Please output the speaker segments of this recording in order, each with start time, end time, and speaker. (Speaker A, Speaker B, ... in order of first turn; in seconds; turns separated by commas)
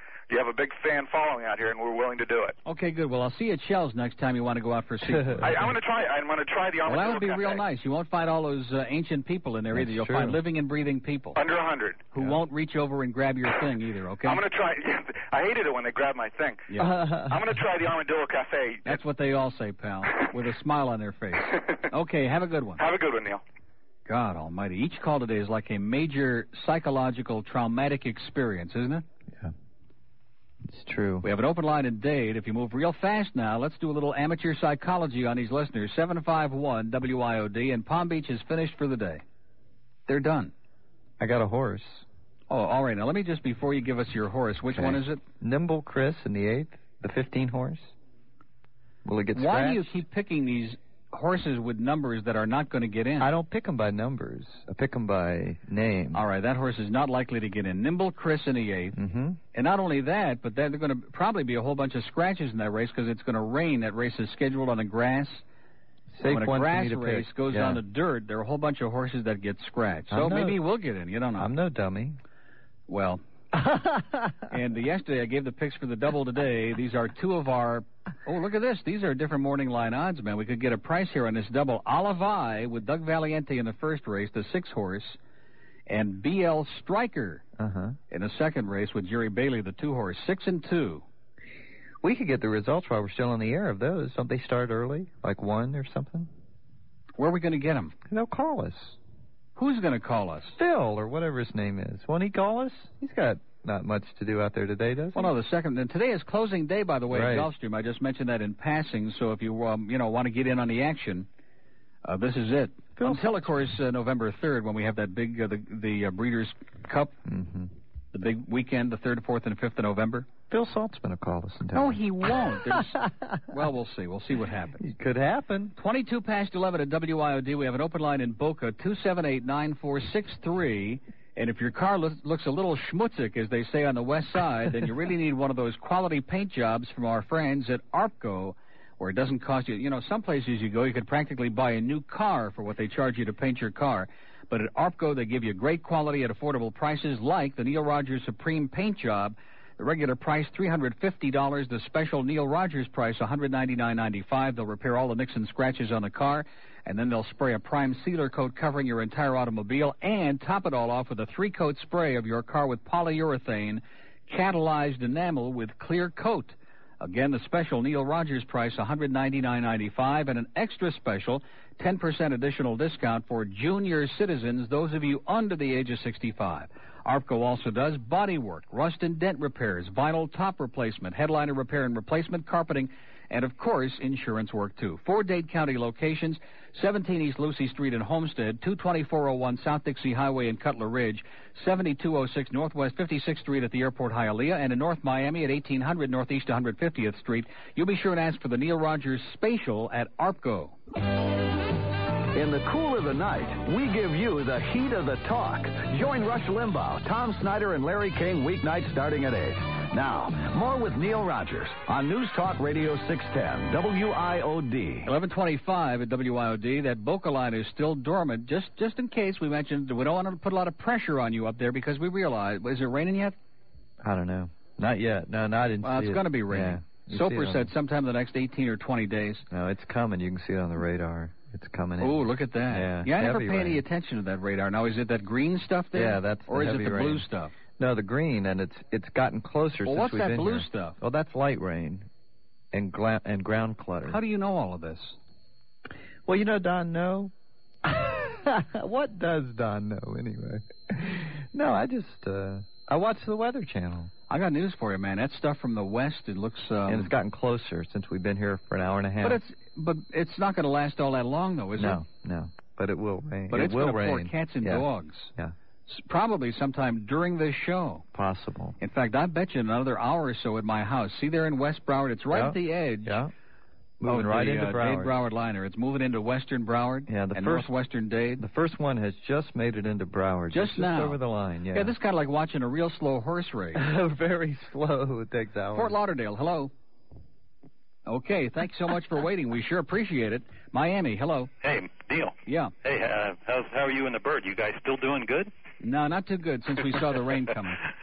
Speaker A: 0.3-2.6, Speaker B: 2.6-5.7, Speaker C: 5.0-5.6, Speaker A: 5.4-7.6, Speaker B: 6.9-11.4, Speaker C: 9.7-10.4, Speaker A: 11.3-12.1, Speaker B: 12.1-14.4, Speaker A: 14.2-19.0, Speaker B: 16.7-17.0, Speaker C: 16.8-17.5, Speaker B: 18.9-22.8, Speaker A: 22.8-23.4, Speaker B: 24.1-29.1, Speaker C: 30.6-31.3, Speaker B: 31.2-39.2, Speaker B: 40.1-40.5, Speaker C: 41.2-42.1, Speaker B: 42.5-45.2, Speaker C: 44.7-47.9, Speaker C: 49.0-49.9, Speaker B: 49.3-53.3, Speaker C: 53.2-56.2, Speaker B: 56.1-59.0, Speaker C: 58.9-59.4, Speaker B: 59.5-65.4, Speaker C: 66.1-67.8, Speaker B: 66.2-71.5, Speaker C: 70.1-70.6, Speaker C: 71.4-72.2, Speaker B: 72.9-73.2, Speaker B: 74.5-85.2, Speaker B: 85.9-87.4, Speaker C: 87.6-88.0, Speaker B: 88.1-91.0, Speaker C: 92.0-96.3, Speaker B: 97.2-97.9, Speaker C: 98.1-99.0, Speaker B: 99.6-100.6, Speaker C: 100.6-105.3, Speaker B: 105.1-111.3, Speaker C: 107.1-107.5, Speaker B: 112.0-117.1, Speaker C: 113.0-113.5, Speaker C: 117.2-117.7, Speaker B: 118.1-120.3, Speaker C: 120.5-123.4, Speaker B: 121.7-124.8, Speaker C: 124.8-125.8, Speaker B: 125.8-200.8, Speaker D: 202.3-215.1, Speaker B: 215.0-223.3, Speaker C: 224.0-227.7, Speaker B: 225.8-229.5, Speaker C: 229.5-233.8, Speaker B: 232.0-237.5, Speaker C: 235.9-237.2, Speaker C: 237.8-242.1, Speaker B: 239.8-241.0, Speaker C: 242.7-244.2, Speaker B: 244.1-245.2, Speaker C: 246.2-247.3, Speaker C: 247.8-254.1, Speaker B: 254.3-257.1, Speaker C: 256.9-259.4, Speaker B: 259.2-262.0, Speaker C: 261.8-265.5, Speaker B: 263.5-265.3, Speaker B: 265.9-268.0, Speaker C: 268.1-268.8, Speaker B: 268.8-273.2, Speaker C: 272.3-273.3, Speaker C: 274.0-275.1, Speaker B: 274.1-278.4, Speaker C: 277.1-277.7, Speaker C: 278.4-281.9, Speaker B: 280.5-281.2, Speaker B: 281.7-283.8, Speaker C: 283.8-286.0, Speaker B: 285.7-286.7, Speaker B: 288.1-291.5, Speaker E: 291.6-295.5, Speaker B: 292.5-292.7, Speaker B: 295.8-297.9